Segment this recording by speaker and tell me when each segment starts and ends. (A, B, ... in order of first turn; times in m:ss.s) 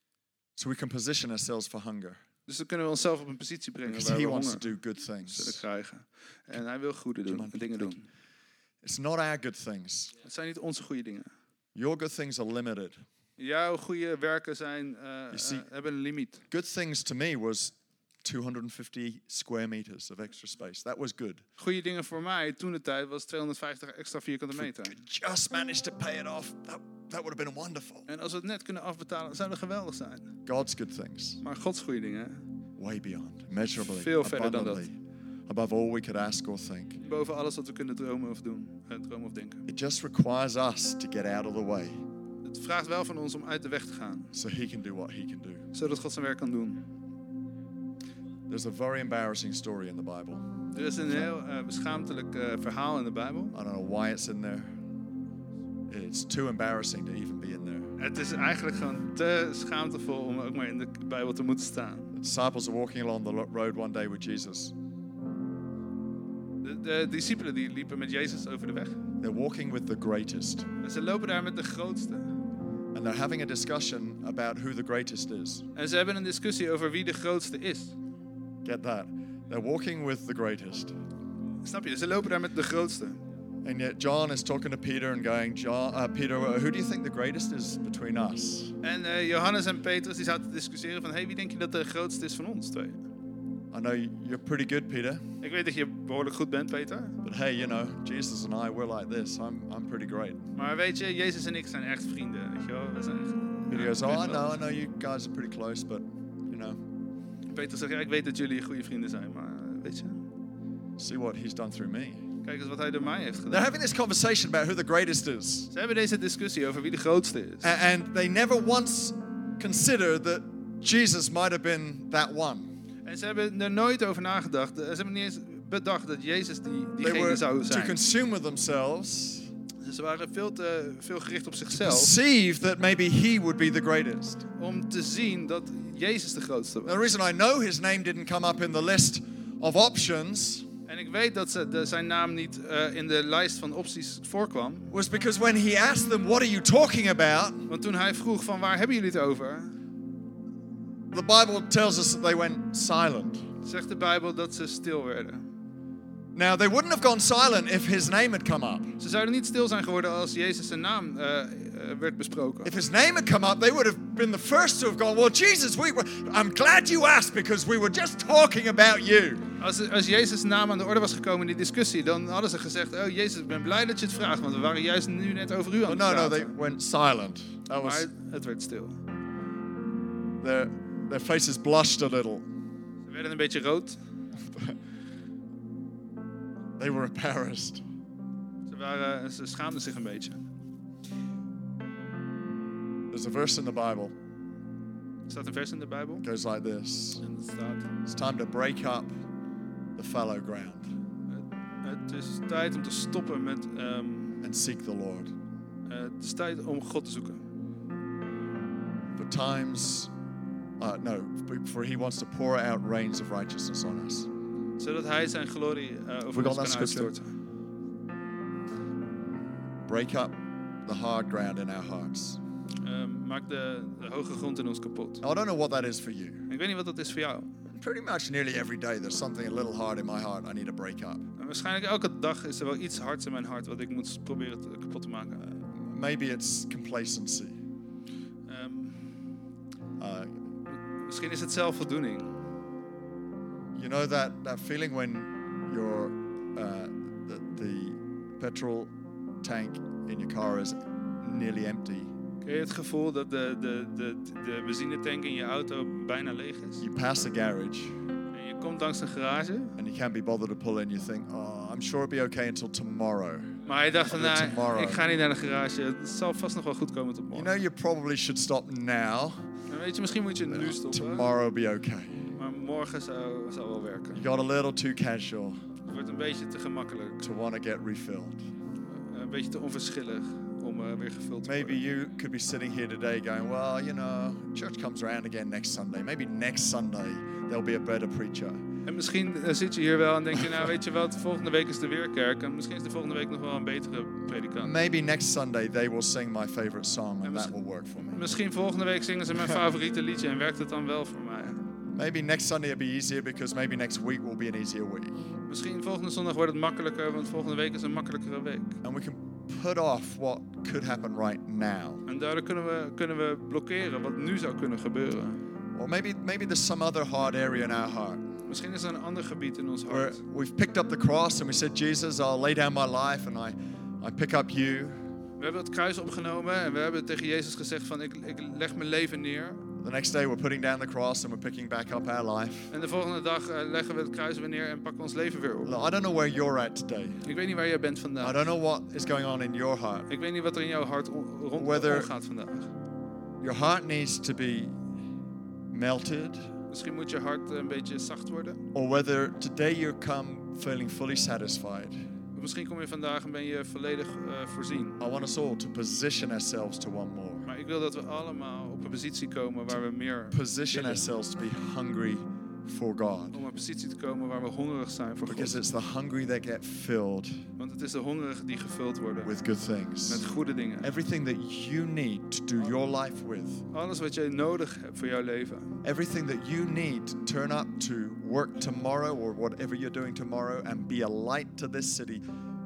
0:00.6-0:02.2 A
0:02.5-0:04.7 B
0:03.9-0:05.6 A
0:05.3-0:08.1 B
0:07.3-0:08.0 A
0:08.8-0:10.1 A
0:10.2-0:11.3 B
0:11.8-0:13.0 A
0:13.4-0:16.4 B
0:15.3-0:15.6 A
0:16.5-0:21.4 A
0:21.6-0:25.0 B
0:24.6-0:28.1 A
0:28.1-0:30.3 B
0:30.5-0:31.4 A
0:31.4-0:32.4 B
0:32.8-0:35.0 A
0:33.8-0:34.8 B
0:35.5-0:37.0 A
0:37.0-0:39.6 B
0:39.7-0:42.0 A
0:42.4-0:44.3 B
0:44.3-0:45.7 A
0:45.7-0:46.8 B
0:48.5-0:50.5 A
0:50.7-0:53.5 B
0:53.5-0:54.8 A
0:55.9-0:57.9 A
0:58.0-1:02.1 B
1:02.1-1:04.7 A
1:06.6-1:09.0 B
1:09.2-1:10.7 A
1:10.8-1:12.3 B
1:12.9-1:15.6 A
1:15.8-1:18.0 B
1:18.6-1:21.0 A
1:21.6-1:23.2 B
1:23.6-1:28.8 A
1:28.8-1:33.0 B
1:33.7-1:35.2 A
1:35.4-1:37.2 B
1:37.2-1:40.4 A
1:40.6-1:44.6 B
1:43.7-1:46.8 A
1:47.5-1:50.3 B
1:51.0-1:52.2 A
1:52.4-1:53.7 B
1:53.5-1:55.7 A
1:55.7-1:57.7 B
1:57.6-2:02.7 A
2:03.0-2:08.0 B
2:07.0-2:09.5 A
2:09.8-2:12.1 B
2:11.7-2:14.4 A
2:14.6-2:17.0 B
2:16.9-2:20.7 A
2:20.9-2:24.9 B
2:24.9-2:27.7 A
2:27.7-2:29.8 B
2:31.1-2:33.4 A
2:33.6-2:35.5 B
2:36.4-2:38.9 A
2:39.0-2:42.7 B
2:42.6-2:49.4 A
2:49.6-2:56.6 B
2:55.9-2:58.1 A
2:57.8-2:59.0 B
3:00.4-3:02.5 A
3:03.1-3:04.0 B
3:04.5-3:04.8 A
3:06.8-3:07.8 A
3:08.7-3:10.4 B
3:13.1-3:14.1 A
3:15.3-3:16.3 B
3:16.2-3:17.2 A
3:17.2-3:17.9 B
3:18.1-3:19.1 A
3:20.0-3:21.0 A
3:21.3-3:24.4 B
3:24.4-3:25.3 A
3:25.9-3:27.4 B
3:29.2-3:30.1 A
3:30.8-3:34.3 A
3:34.8-3:37.4 B
3:36.3-3:37.1 A
3:39.8-3:42.4 A
3:42.8-3:45.2 B
3:45.2-3:46.5 A
3:46.5-3:47.5 B
3:47.8-3:51.2 A
3:51.4-3:55.4 B
3:55.4-3:57.6 A
3:58.5-3:59.3 B
4:00.0-4:00.4 A
4:00.9-4:02.4 B
4:03.8-4:08.9 A
4:09.4-4:12.1 A
4:12.4-4:16.8 B
4:16.8-4:18.0 A
4:18.3-4:19.8 B
4:19.8-4:23.6 A
4:23.6-4:27.5 B
4:24.1-4:25.0 A
4:27.3-4:29.5 A
4:29.7-4:31.3 B
4:30.5-4:32.3 A
4:32.4-4:34.2 B
4:34.1-4:35.6 A
4:35.9-4:37.2 B
4:37.2-4:38.4 A
4:38.9-4:41.8 B
4:41.4-4:48.6 A
4:48.9-4:54.7 B
4:54.6-4:58.2 A
4:57.2-5:01.6 B
5:01.9-5:05.3 A
5:05.5-5:08.8 B
5:08.8-5:12.0 A
5:12.1-5:15.4 B
5:15.8-5:18.3 A
5:18.5-5:20.2 B
5:19.9-5:25.0 A
5:25.4-5:29.6 B
5:29.8-5:32.7 A
5:32.7-5:35.8 B
5:35.6-5:37.2 A
5:37.2-5:38.4 B
5:38.2-5:40.1 A
5:40.1-5:42.7 B
5:41.6-5:42.1 A
5:43.4-5:44.8 A
5:45.7-5:46.5 A
5:46.7-5:48.6 B
5:48.7-5:52.1 A
5:52.4-5:55.0 B
5:55.0-5:57.4 A
5:57.5-6:01.0 B
6:00.3-6:03.4 A
6:03.3-6:05.6 B
6:05.3-6:07.5 A
6:07.6-6:09.3 B
6:09.2-6:10.2 A
6:10.1-6:10.9 B
6:10.8-6:13.6 A
6:13.7-6:15.8 B
6:15.8-6:22.2 A